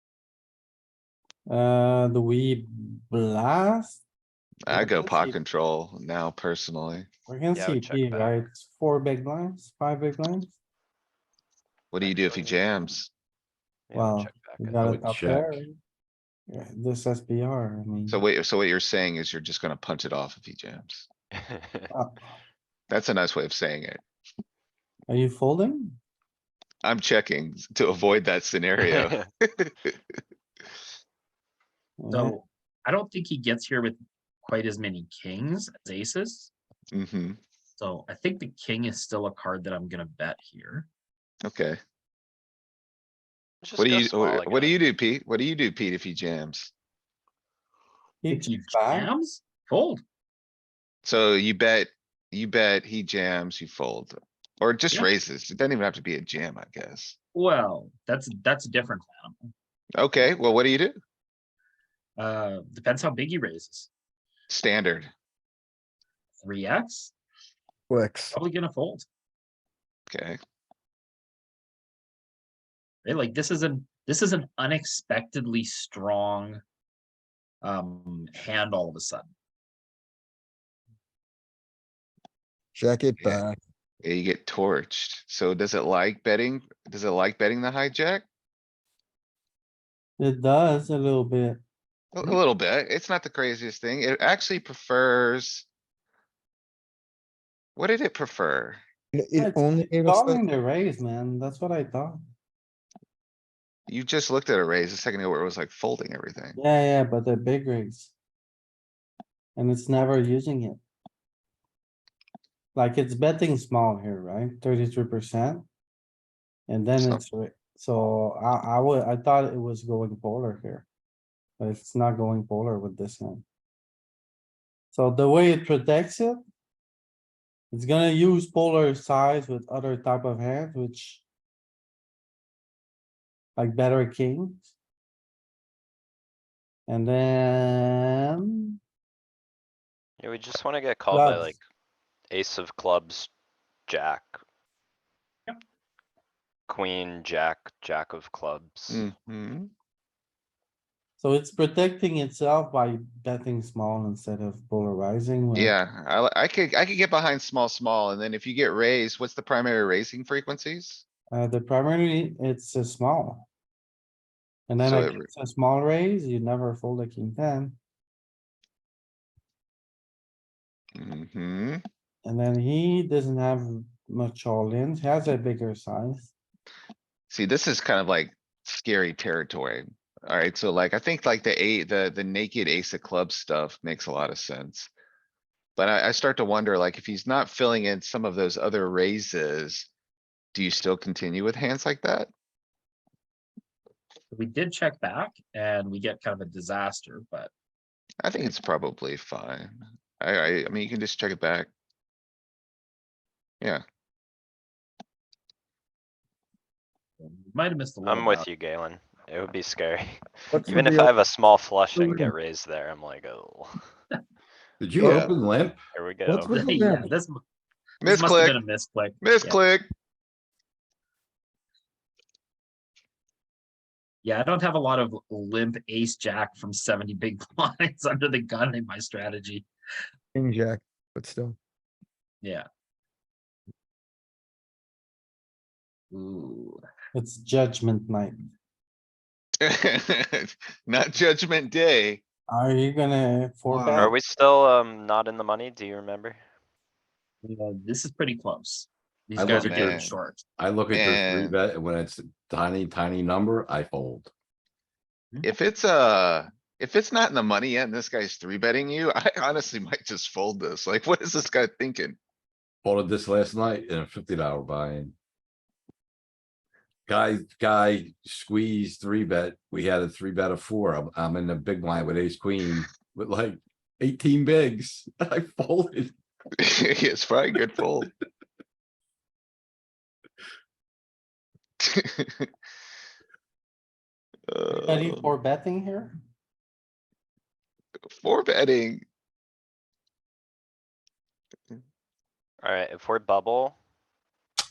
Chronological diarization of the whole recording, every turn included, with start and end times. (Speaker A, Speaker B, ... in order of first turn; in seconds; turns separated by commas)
Speaker A: 1.5-4.0, Speaker B: 4.7-7.1, Speaker A: 4.7-5.4, Speaker A: 7.3-10.5, Speaker C: 7.5-8.4, Speaker B: 11.9-13.1, Speaker C: 12.0-12.6, Speaker C: 13.9-14.8, Speaker A: 13.9-15.8, Speaker D: 14.8-15.6, Speaker A: 16.5-18.2, Speaker B: 18.1-21.1, Speaker C: 21.3-21.9, Speaker A: 21.9-22.3, Speaker B: 22.9-24.0, Speaker A: 25.1-26.0, Speaker B: 26.8-29.9, Speaker C: 28.8-29.3, Speaker A: 32.0-32.4, Speaker E: 32.1-36.5, Speaker B: 36.9-37.4, Speaker E: 37.8-40.9, Speaker B: 41.4-41.8, Speaker C: 43.6-44.8, Speaker B: 43.8-46.7, Speaker A: 48.2-49.1, Speaker E: 48.3-50.0, Speaker B: 51.0-57.2, Speaker E: 57.4-59.4, Speaker B: 60.0-61.0, Speaker E: 62.2-63.9, Speaker B: 64.5-65.1, Speaker E: 66.4-67.1, Speaker F: 67.9-68.4, Speaker E: 68.3-69.1, Speaker B: 70.1-70.4, Speaker E: 73.0-76.6, Speaker E: 77.6-79.3, Speaker F: 82.8-83.6, Speaker B: 84.0-88.2, Speaker A: 90.2-91.6, Speaker B: 92.1-95.7, Speaker B: 97.8-98.8, Speaker F: 99.2-100.4, Speaker A: 99.4-102.2, Speaker B: 103.9-106.6, Speaker A: 106.6-108.1, Speaker A: 109.6-110.8, Speaker A: 112.8-115.7, Speaker A: 116.7-120.9, Speaker A: 121.6-123.5, Speaker A: 124.9-126.4, Speaker A: 127.7-131.2, Speaker A: 133.6-134.7, Speaker A: 136.9-138.7, Speaker C: 140.2-141.6, Speaker A: 141.1-141.6, Speaker C: 142.3-143.3, Speaker C: 143.9-144.4, Speaker C: 146.7-149.1, Speaker B: 148.9-149.7, Speaker A: 151.2-155.8, Speaker B: 155.6-161.1, Speaker A: 161.3-163.5, Speaker A: 164.7-167.8, Speaker B: 164.8-165.3, Speaker B: 171.0-171.8, Speaker A: 172.2-176.3, Speaker B: 177.3-184.9, Speaker B: 185.8-189.9, Speaker B: 190.5-192.3, Speaker E: 194.3-197.5, Speaker B: 198.2-201.7, Speaker E: 207.2-208.5, Speaker C: 208.1-213.9, Speaker F: 210.5-211.2, Speaker F: 212.0-212.3, Speaker D: 214.8-215.8, Speaker B: 215.0-215.3, Speaker C: 215.9-216.6, Speaker F: 216.3-217.1, Speaker E: 216.5-217.4, Speaker B: 218.0-218.6, Speaker E: 218.0-219.6, Speaker B: 219.2-219.9, Speaker E: 224.2-229.7, Speaker F: 230.3-231.6, Speaker E: 236.1-236.8, Speaker A: 237.1-238.5, Speaker B: 239.6-242.2, Speaker A: 242.5-244.2, Speaker C: 243.9-246.4, Speaker E: 247.4-250.4, Speaker D: 249.4-250.0, Speaker B: 249.6-250.1, Speaker D: 250.6-254.3, Speaker B: 250.9-251.6, Speaker B: 255.4-262.2, Speaker D: 262.8-265.1, Speaker D: 267.1-276.1, Speaker B: 276.6-278.1, Speaker B: 281.8-282.5, Speaker B: 284.5-285.3, Speaker A: 284.7-286.2, Speaker B: 288.1-289.0, Speaker C: 292.6-293.8